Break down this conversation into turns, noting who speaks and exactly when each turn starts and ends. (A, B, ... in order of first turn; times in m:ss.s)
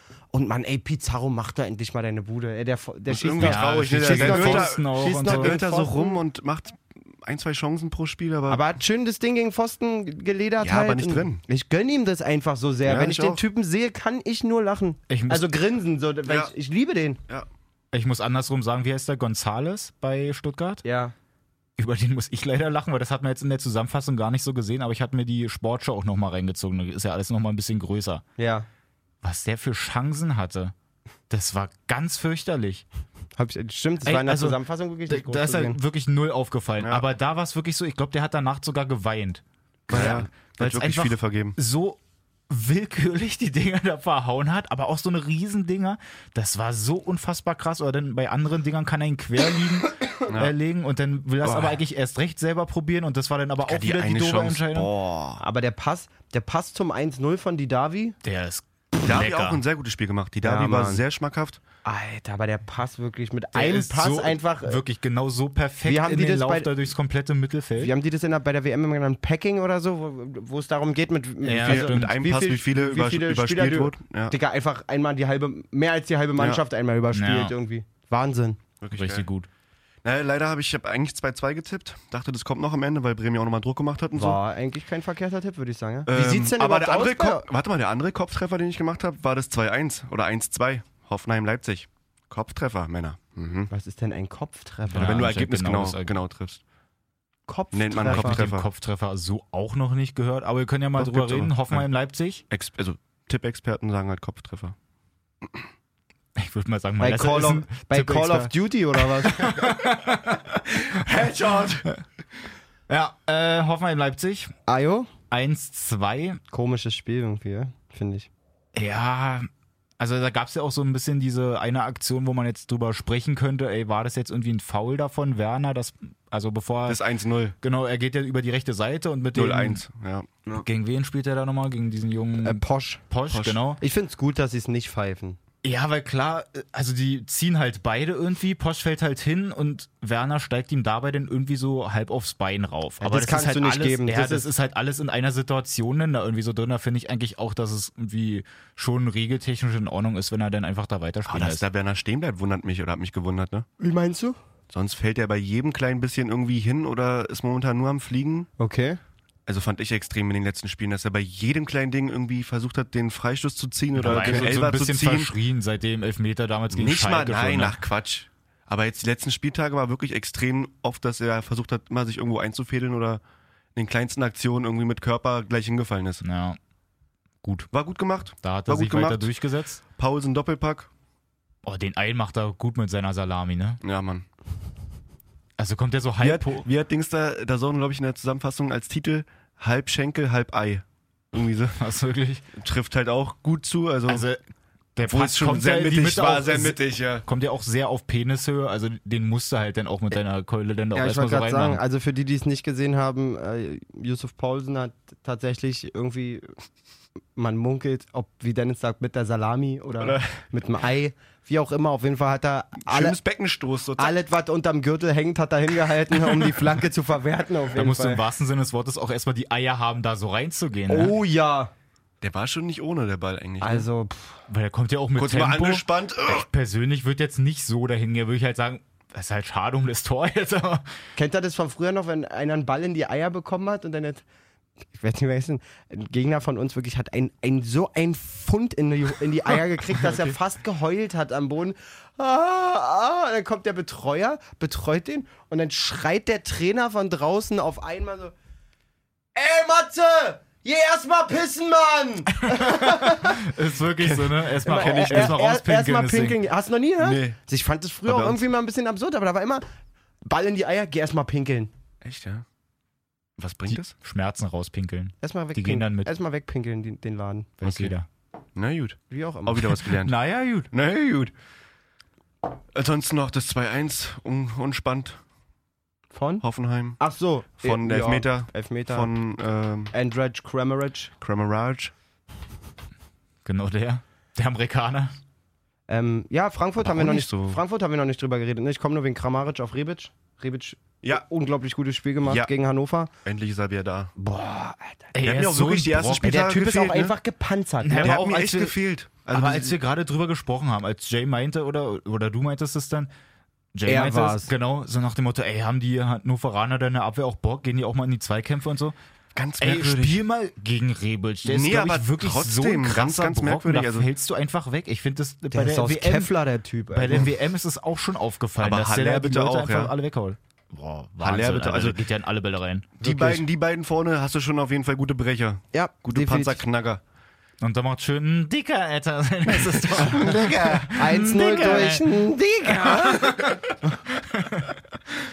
0:00.3-0:06.2 A
0:03.1-0:08.6 B
0:03.4-0:05.7 C
0:08.5-0:17.2 A
0:10.6-0:11.4 B
0:12.8-0:13.4 B
0:15.1-0:15.5 C
0:16.3-0:16.5 B
0:17.9-0:20.8 C
0:20.8-0:21.1 A
0:21.8-0:28.2 C
0:28.4-0:28.7 A
0:29.2-0:30.7 C
0:31.3-0:32.8 C
0:33.4-0:35.8 A
0:34.0-0:42.0 C
0:36.8-0:37.1 B
0:39.9-0:40.3 A
0:39.9-0:41.6 B
0:42.5-0:54.9 C
0:53.6-0:55.4 B
0:55.4-0:58.2 A
0:58.2-0:59.6 C
0:59.0-1:01.6 B
1:00.4-1:01.0 A
1:01.8-1:04.8 A
1:03.6-1:07.9 C
1:05.8-1:06.7 A
1:07.8-1:18.6 A
1:11.4-1:12.2 C
1:11.6-1:14.4 B
1:16.4-1:16.6 B
1:17.1-1:17.5 C
1:18.8-1:19.3 B
1:18.9-1:19.5 C
1:20.0-1:24.4 B
1:24.2-1:27.5 A
1:26.1-1:33.7 B
1:33.7-1:35.2 A
1:34.9-1:36.1 C
1:35.0-1:36.6 B
1:37.5-1:38.4 A
1:37.7-1:38.7 B
1:38.0-1:42.4 C
1:41.0-1:41.9 B
1:42.5-1:44.8 B
1:46.4-1:50.4 C
1:47.0-1:49.7 A
1:50.9-1:51.8 B
1:52.9-1:54.5 C
1:54.7-1:55.1 A
1:55.3-1:56.4 C
1:56.5-1:58.3 A
1:58.8-1:59.5 C
2:00.0-2:07.0 C
2:06.9-2:07.6 B
2:07.6-2:09.8 C
2:09.3-2:10.3 B
2:10.6-2:13.8 C
2:12.4-2:13.0 A
2:13.3-2:13.6 B
2:13.8-2:15.4 A
2:15.6-2:31.6 C
2:23.0-2:24.5 A
2:31.3-2:33.7 B
2:33.8-2:34.4 A
2:34.7-2:38.5 B
2:38.6-2:39.0 A
2:39.5-2:45.3 B
2:44.0-2:47.8 C
2:44.1-2:44.4 A
2:46.7-2:53.2 B
2:53.8-2:56.2 B
2:56.2-2:56.6 C
2:57.4-2:57.7 C
2:57.7-2:59.3 B
2:58.4-2:59.8 C
3:00.0-3:00.9 B
3:01.6-3:03.8 C
3:03.8-3:04.3 B
3:05.6-3:06.7 C
3:06.2-3:11.8 B
3:11.8-3:12.4 C
3:12.6-3:14.3 B
3:14.1-3:14.4 C
3:15.0-3:21.8 C
3:15.1-3:17.3 B
3:20.9-3:26.5 A
3:27.4-3:33.2 A
3:30.0-3:30.4 B
3:32.8-3:34.2 B
3:34.0-3:38.2 A
3:37.8-3:41.1 C
3:40.9-3:41.7 A
3:42.2-3:43.9 B
3:43.6-3:44.4 A
3:44.5-3:50.9 C
3:45.2-3:46.5 B
3:51.2-3:54.2 A
3:55.0-4:08.3 A
4:09.4-4:13.4 A
4:12.5-4:16.4 C
4:14.0-4:15.4 B
4:14.6-4:19.7 A
4:17.0-4:17.4 B
4:18.1-4:18.4 B
4:20.3-4:21.7 A
4:22.0-4:22.4 B
4:23.4-4:24.0 B
4:23.7-4:26.1 C
4:25.2-4:27.5 A
4:27.6-4:28.1 C
4:27.6-4:27.9 B
4:28.6-4:30.2 B
4:29.1-4:29.8 A
4:30.0-4:30.7 C
4:30.7-4:31.3 B
4:32.7-4:35.2 B
4:36.1-4:36.4 A
4:36.4-4:37.0 B
4:37.0-4:39.1 A
4:37.6-4:39.9 B
4:39.9-4:41.1 A
4:41.2-4:41.9 B
4:43.4-4:45.1 C
4:45.9-4:53.1 A
4:46.8-4:47.6 B
4:52.2-4:52.5 B
4:53.2-4:54.1 B
4:54.2-4:55.1 A
4:55.1-4:56.4 C
4:55.2-4:57.2 B
4:56.2-4:58.3 A
4:57.8-4:58.7 C
4:58.0-4:59.8 B
4:59.3-5:03.1 C
5:03.7-5:09.0 C
5:03.9-5:04.5 A
5:09.4-5:10.2 B
5:09.6-5:16.3 C
5:11.4-5:14.1 B
5:15.5-5:17.3 A
5:16.9-5:23.4 C
5:18.6-5:19.9 B
5:21.2-5:22.0 B
5:23.0-5:27.0 B
5:25.7-5:26.6 A
5:27.6-5:34.8 C
5:29.9-5:31.0 B
5:30.4-5:34.0 A